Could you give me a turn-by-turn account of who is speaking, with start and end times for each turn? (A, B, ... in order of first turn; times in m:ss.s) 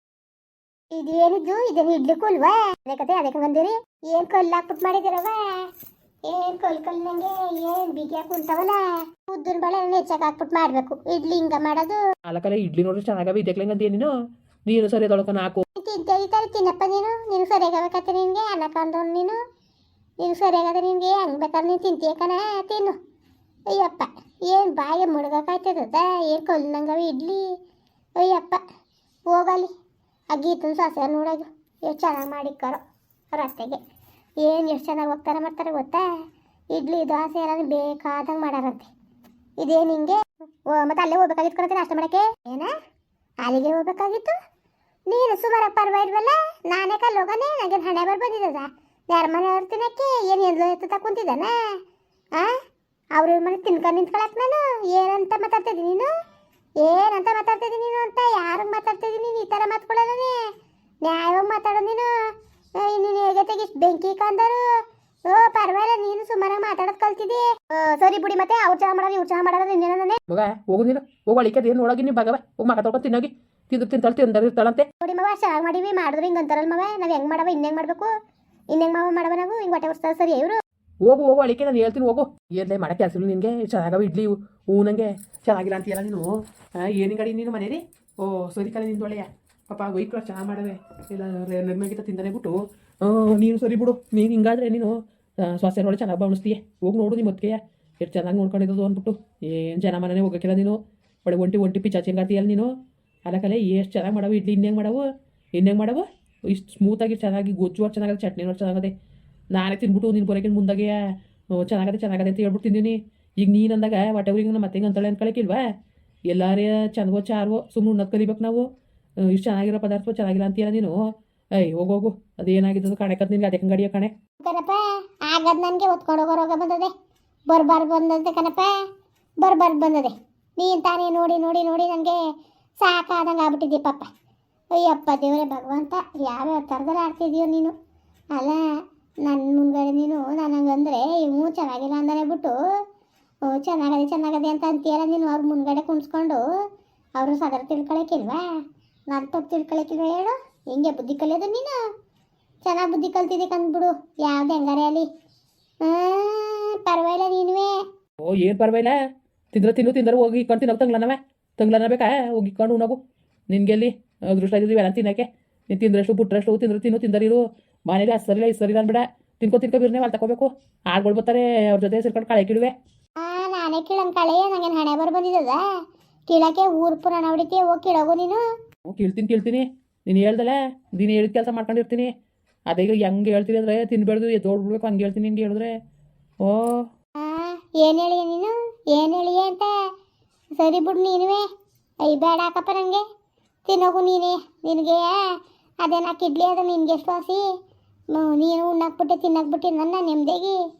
0:00.9-0:05.6 A
0:06.3-0:12.0 A
0:12.2-0:14.1 B
0:14.6-0:15.6 B
0:15.8-0:19.4 A
0:20.2-0:22.9 A
0:23.7-0:27.4 A
0:28.2-0:28.6 A
0:29.3-0:29.7 A
0:30.3-0:32.8 A
0:33.3-0:33.8 A
0:34.4-0:36.0 A
0:36.7-0:38.9 A
0:39.6-0:42.7 A
0:43.4-0:44.3 A
0:45.1-0:51.6 A
0:53.1-0:56.1 A
0:56.8-1:00.5 A
1:01.0-1:10.2 A
1:10.3-1:14.9 B
1:15.0-1:18.1 A
1:18.7-1:20.6 A
1:21.0-1:42.7 B
1:43.2-1:48.9 B
1:49.5-1:55.6 B
1:56.3-1:58.6 B
1:59.2-2:01.0 B
2:01.6-2:04.1 B
2:04.4-2:06.9 A
2:07.5-2:08.7 A
2:09.4-2:12.2 A
2:12.8-2:14.1 A
2:14.7-2:17.7 A
2:18.3-2:18.6 A
2:19.2-2:22.6 A
2:23.4-2:26.4 A
2:27.2-2:28.4 A
2:29.1-2:31.8 A
2:32.6-2:35.1 A
2:35.8-2:37.8 A
2:38.2-2:39.0 B
2:39.5-2:52.7 B
2:53.2-2:55.6 A
2:56.3-2:58.4 A
2:58.8-3:02.1 B
3:02.7-3:05.7 B
3:06.4-3:06.8 B
3:07.2-3:09.7 A
3:10.6-3:11.4 A
3:12.0-3:13.0 A
3:13.6-3:15.2 A
3:15.8-3:17.4 A
3:18.1-3:20.6 A